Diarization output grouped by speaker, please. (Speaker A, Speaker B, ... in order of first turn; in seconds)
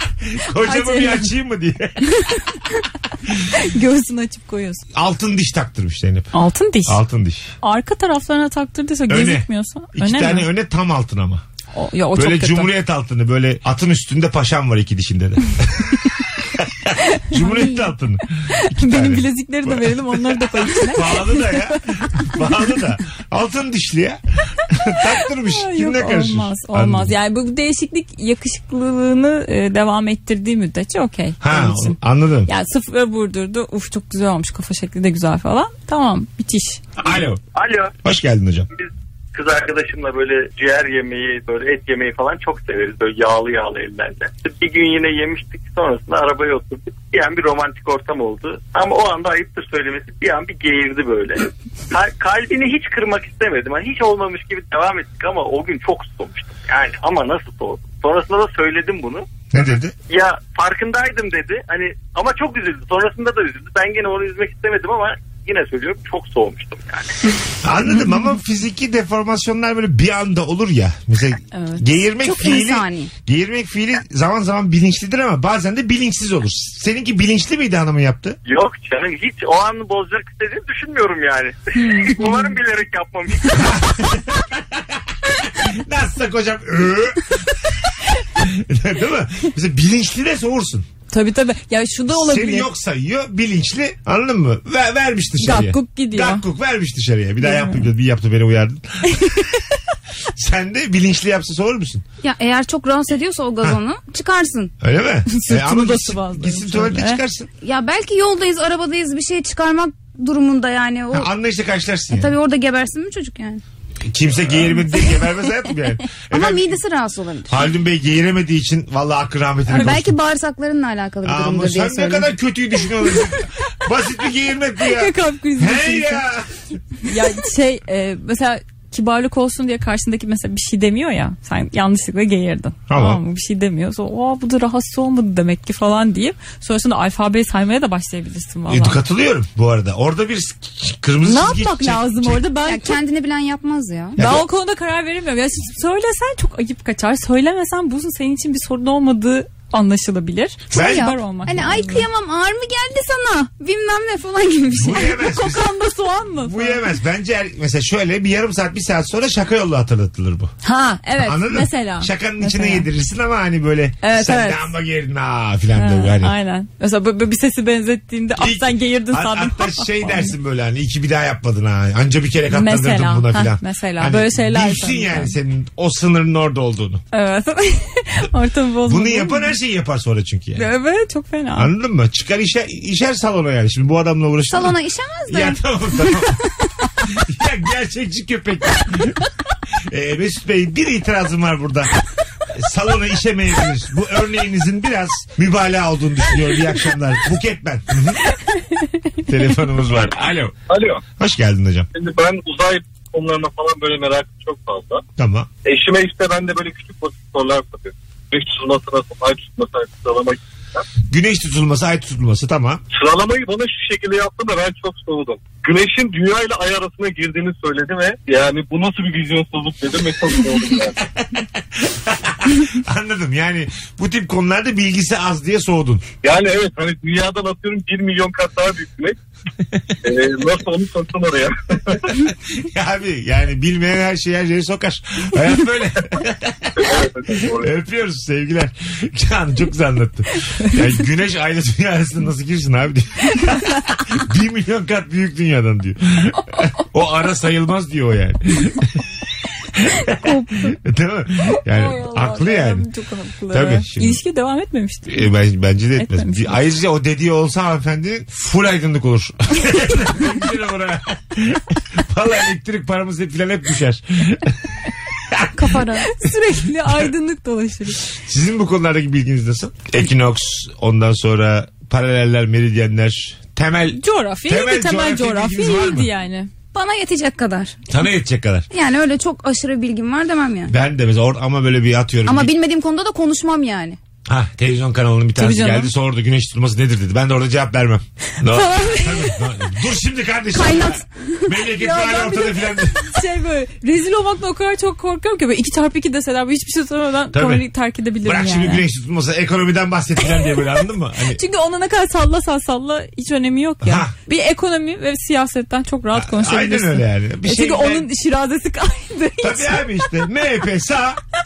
Speaker A: 0.3-2.5, 4.9-6.3, 6.8-7.5, 9.1-11.4, 12.1-27.1, 31.4-32.5, 37.0-37.4, 38.0-38.7, 59.5-59.9, 67.6-78.4, 83.5-90.9, 92.1-99.6, 100.3-102.0, 104.8-107.5, 111.1-112.3, 114.0-116.8, 117.5-120.1, 121.2-126.6, 132.9-133.2, 138.7-142.4, 144.2-144.4, 150.7-151.1, 154.7-155.7, 156.4-160.5, 161.2-166.3, 168.4-177.0, 178.8-180.7, 181.5-186.4, 187.0-189.2, 189.9-191.9, 192.5-198.2, 199.3-200.6, 201.2-201.9, 205.2-205.5, 211.1-212.8, 221.0-226.0, 232.2-249.0, 249.7-252.9, 253.5-254.2, 255.1-264.5, 265.1-266.2, 268.0-276.1, 277.9-278.7, 280.7-282.5, 284.2-293.1, 297.3-297.6, 298.2-301.4, 303.8-304.1, 306.1-308.1, 309.4-311.2
Speaker B: 0.6-1.3, 2.0-2.6, 3.5-4.8, 6.3-7.0, 7.6-10.5, 11.7-12.7, 17.1-17.9, 18.5-22.4, 25.4-36.8, 71.5-71.8, 81.8-82.1, 91.1-92.7, 95.4-96.4, 97.4-97.9, 99.1-99.8, 105.3-107.2, 119.7-120.0, 124.8-126.2, 127.0-139.0, 141.2-142.9, 144.2-152.1, 154.9-156.8, 160.6-162.8, 164.0-164.7, 165.7-170.3, 172.5-175.3, 177.1-179.5, 180.6-181.7, 250.0-250.8, 251.6-255.2, 255.9-256.6, 265.6-268.0, 273.9-276.5, 285.4-285.9, 288.6-289.3, 291.7-298.8, 301.3-310.0
Speaker C: 37.5-37.9, 38.8-59.3, 60.1-67.1, 78.4-83.8
Speaker D: 72.2-73.1, 82.0-82.4, 102.2-104.7, 107.6-111.3, 112.1-113.6, 116.3-117.6, 119.8-122.3, 142.6-144.2, 150.7-155.2, 184.5-186.2, 265.6-265.9, 276.7-277.8, 278.7-280.7, 282.2-284.0, 290.5-291.5
Speaker E: 200.7-201.0, 201.9-205.0, 205.6-210.8, 212.9-220.9, 226.2-229.1, 230.0-232.1, 236.8-237.7